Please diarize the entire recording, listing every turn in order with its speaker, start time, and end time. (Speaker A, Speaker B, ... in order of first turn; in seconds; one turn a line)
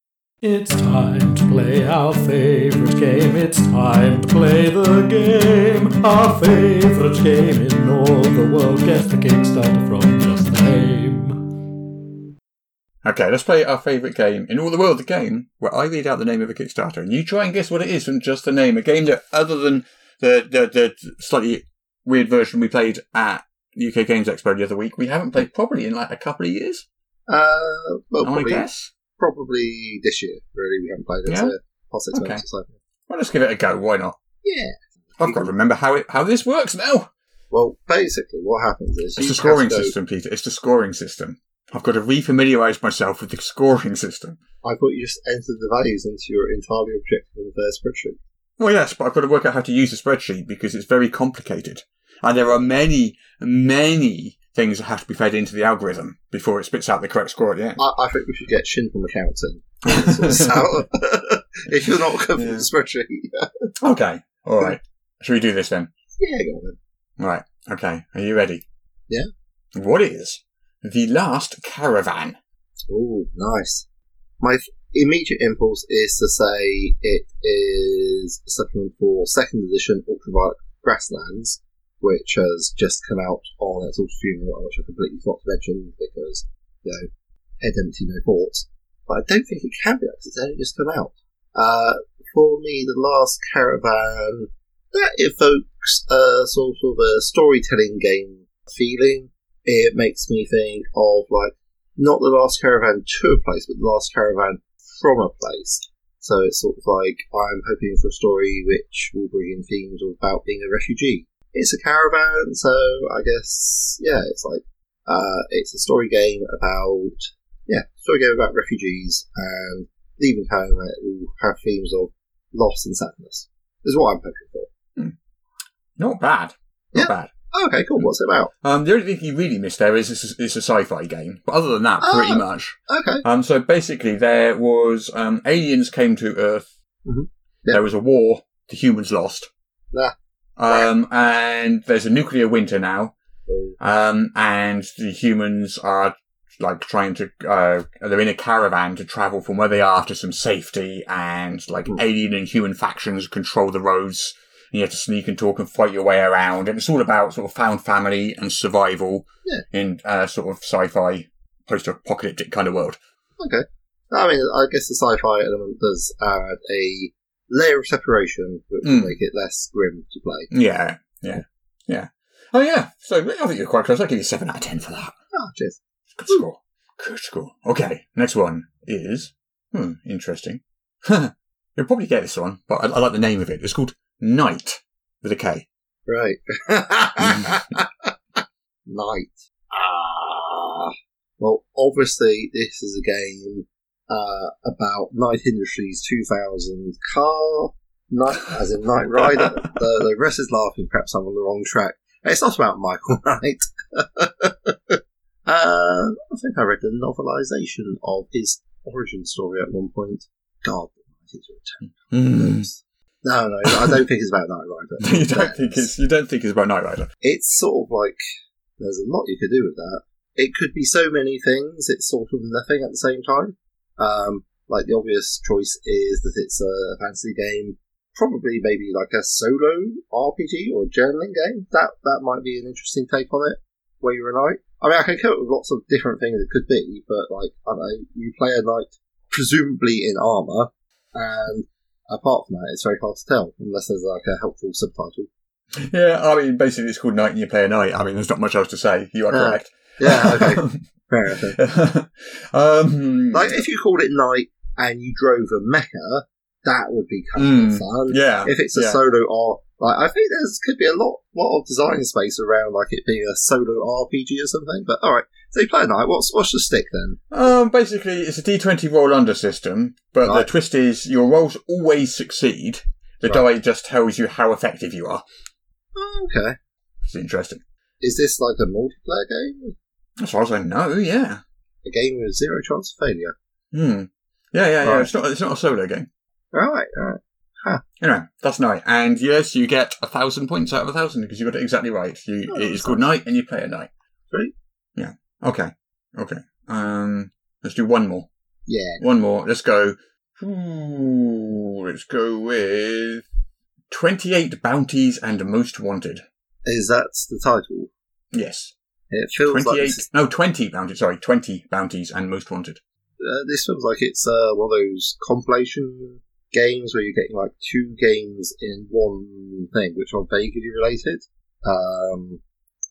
Speaker A: 0.4-11.4
Speaker B: 13.0-26.9
Speaker C: 27.3-28.7
Speaker B: 28.2-28.9
Speaker C: 29.2-32.7
Speaker B: 31.3-31.5
Speaker B: 32.1-32.4
Speaker B: 33.1-34.2
Speaker C: 34.4-35.5
Speaker B: 35.2-37.1
Speaker C: 37.5-39.9
Speaker B: 39.2-44.4
Speaker C: 44.6-48.2
Speaker B: 48.6-57.8
Speaker C: 57.8-63.7
Speaker B: 59.9-60.7
Speaker B: 61.8-62.7
Speaker B: 63.8-65.9
Speaker C: 66.2-66.8
Speaker B: 67.2-68.6
Speaker B: 69.8-72.4
Speaker C: 72.9-73.8
Speaker C: 74.4-87.1
Speaker C: 87.6-124.7
Speaker B: 126.0-127.3
Speaker C: 127.0-128.5
Speaker B: 128.6-136.7
Speaker C: 132.0-133.2
Speaker C: 137.1-137.8
Speaker B: 137.7-139.5
Speaker B: 140.6-143.1
Speaker C: 143.5-143.8
Speaker B: 143.8-163.0
Speaker C: 163.4-170.5
Speaker B: 168.8-169.2
Speaker B: 170.5-175.2
Speaker C: 175.3-176.5
Speaker B: 176.1-185.7
Speaker C: 186.1-188.1
Speaker B: 187.2-187.5
Speaker C: 188.9-215.9
Speaker B: 211.9-212.7
Speaker B: 213.7-214.0
Speaker B: 215.0-217.1
Speaker C: 217.2-218.2
Speaker C: 218.8-245.3
Speaker B: 245.8-250.8
Speaker C: 249.3-251.6
Speaker B: 251.3-253.6
Speaker C: 253.3-267.2
Speaker B: 257.4-259.0
Speaker B: 267.3-275.2
Speaker C: 275.9-276.6
Speaker B: 277.0-277.6
Speaker C: 278.0-279.8
Speaker B: 280.2-281.4
Speaker C: 281.9-283.3
Speaker B: 283.7-286.1
Speaker C: 284.8-285.1
Speaker C: 286.5-287.8
Speaker B: 288.0-293.9
Speaker C: 292.5-293.1
Speaker B: 295.0-298.3
Speaker C: 298.7-299.0
Speaker B: 299.0-303.2
Speaker B: 303.9-306.2
Speaker C: 306.7-307.9
Speaker B: 308.3-308.7
Speaker C: 309.1-310.1
Speaker B: 309.5-312.8
Speaker C: 313.2-322.4